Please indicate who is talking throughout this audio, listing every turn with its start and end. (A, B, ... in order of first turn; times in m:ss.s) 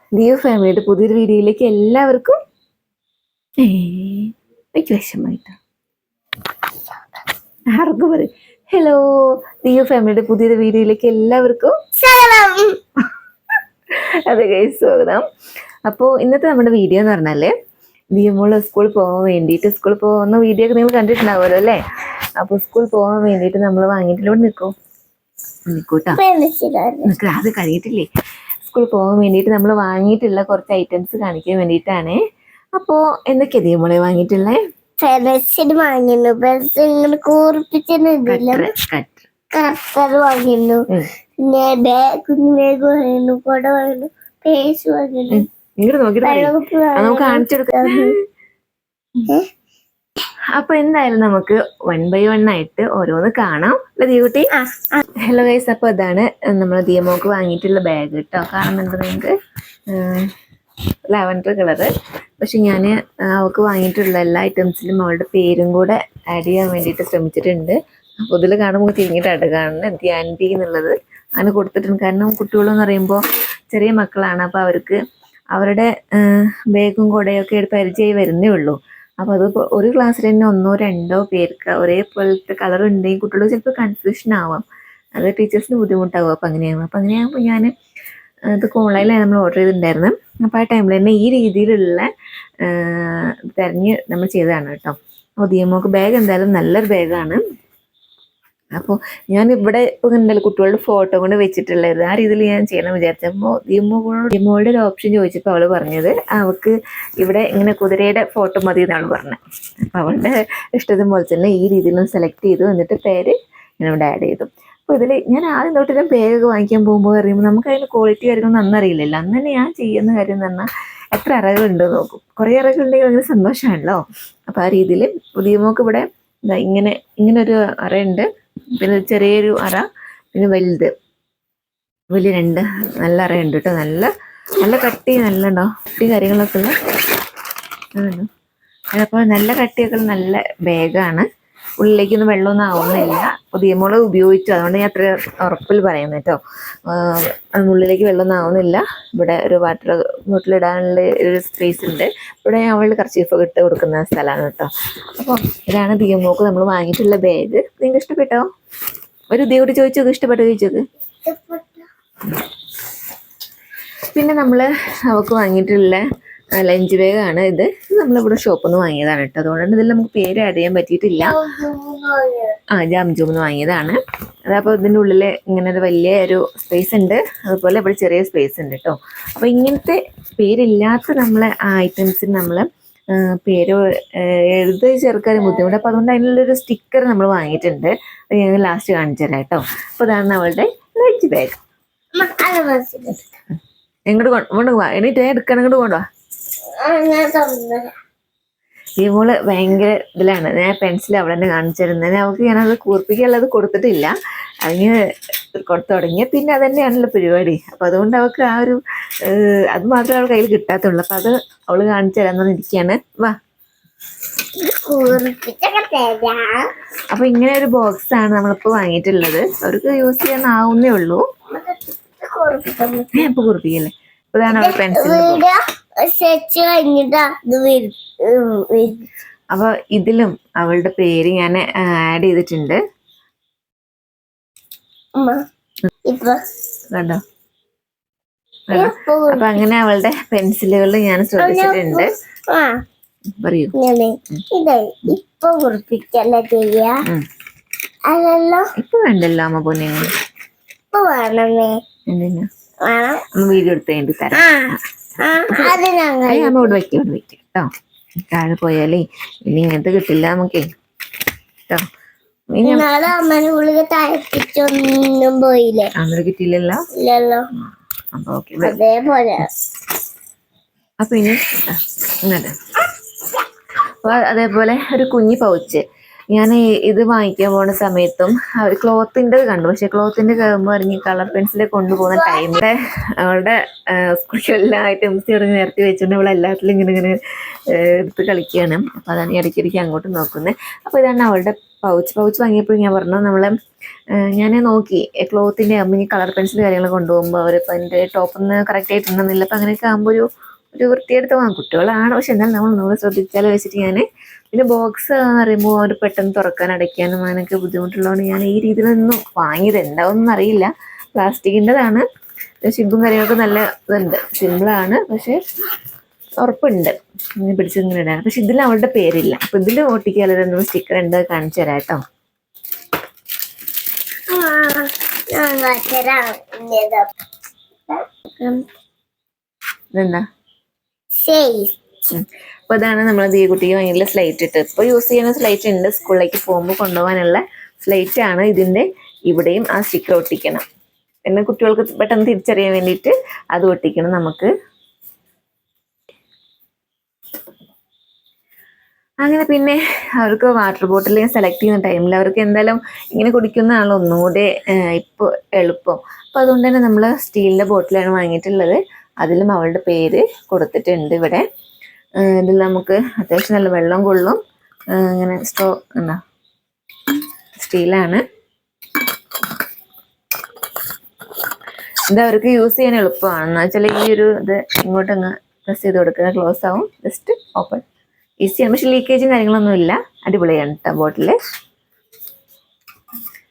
0:00.2-0:02.4 A
0:03.6-0:05.6 A
0:07.7-0:11.7 A
0:12.0-0:12.8 B
0:14.2-0:15.2 A
0:15.9-0:17.5 A
0:18.1-0:21.8 A
0:22.4-0:24.7 A
0:25.7-0:26.2 A
0:26.1-0:27.1 B
0:27.0-0:28.0 A
0:28.6-0:32.2 A
0:32.8-0:34.6 A
0:35.0-0:38.7 B
0:38.3-0:39.2 A
0:39.5-0:45.4 B
0:45.3-0:48.1 A
0:46.2-0:48.2 B
0:50.5-0:54.5 A
0:54.5-0:55.0 B
0:55.2-0:59.3 A
0:59.9-1:00.3 A
1:01.1-1:01.9 A
1:02.4-1:13.2 A
1:13.7-1:15.0 A
1:15.5-1:24.6 A
1:25.2-1:27.7 A
1:28.5-1:32.1 A
1:32.6-1:37.4 A
1:38.8-2:10.9 A
2:12.1-2:14.1 A
2:14.6-2:16.7 A
2:18.0-2:18.3 A
2:19.0-2:21.2 A
2:21.8-2:38.4 A
2:39.3-2:40.8 A
2:41.2-2:41.9 B
2:44.1-2:46.0 A
2:46.6-2:51.4 A
2:51.2-2:52.6 B
2:52.7-3:11.6 A
3:12.1-3:13.2 B
3:14.1-3:16.0 A
3:16.8-3:17.9 B
3:19.0-3:24.1 A
3:24.6-3:24.9 A
3:25.5-3:33.4 A
3:34.6-3:36.7 B
3:37.1-3:41.2 A
3:41.5-3:43.2 B
3:43.1-3:45.4 A
3:44.5-3:49.0 B
3:49.5-3:52.8 A
3:55.2-3:55.4 B
3:56.0-3:56.4 B
3:56.9-3:57.2 A
3:58.7-4:02.1 A
3:58.7-3:59.5 B
4:01.4-4:02.8 B
4:03.4-4:03.7 A
4:03.7-4:07.0 B
4:08.0-4:08.7 B
4:08.7-4:10.1 A
4:10.9-4:11.8 B
4:12.1-4:12.5 A
4:12.8-4:13.2 B
4:13.3-4:15.8 A
4:14.3-4:16.8 B
4:16.3-4:17.7 A
4:18.3-4:20.7 A
4:22.5-4:23.0 A
4:22.6-4:25.9 B
4:25.9-4:26.8 A
4:27.0-4:27.5 B
4:28.1-4:28.8 A
4:28.6-4:29.5 B
4:31.0-4:32.5 A
4:34.0-4:35.8 A
4:36.3-4:47.2 A
4:42.1-4:42.6 B
4:47.7-4:53.5 A
4:54.2-5:12.0 A
5:12.6-5:15.4 A
5:16.4-5:22.0 A
5:24.3-5:27.1 B
5:27.9-5:28.6 B
5:29.9-5:30.2 A
5:31.2-5:31.7 B
5:32.1-5:40.6 A
5:41.2-5:44.5 A
5:49.2-6:01.4 A
6:02.2-6:04.4 A
6:04.9-6:06.2 A
6:07.6-6:08.2 A
6:12.1-6:17.8 A
6:18.4-6:21.4 A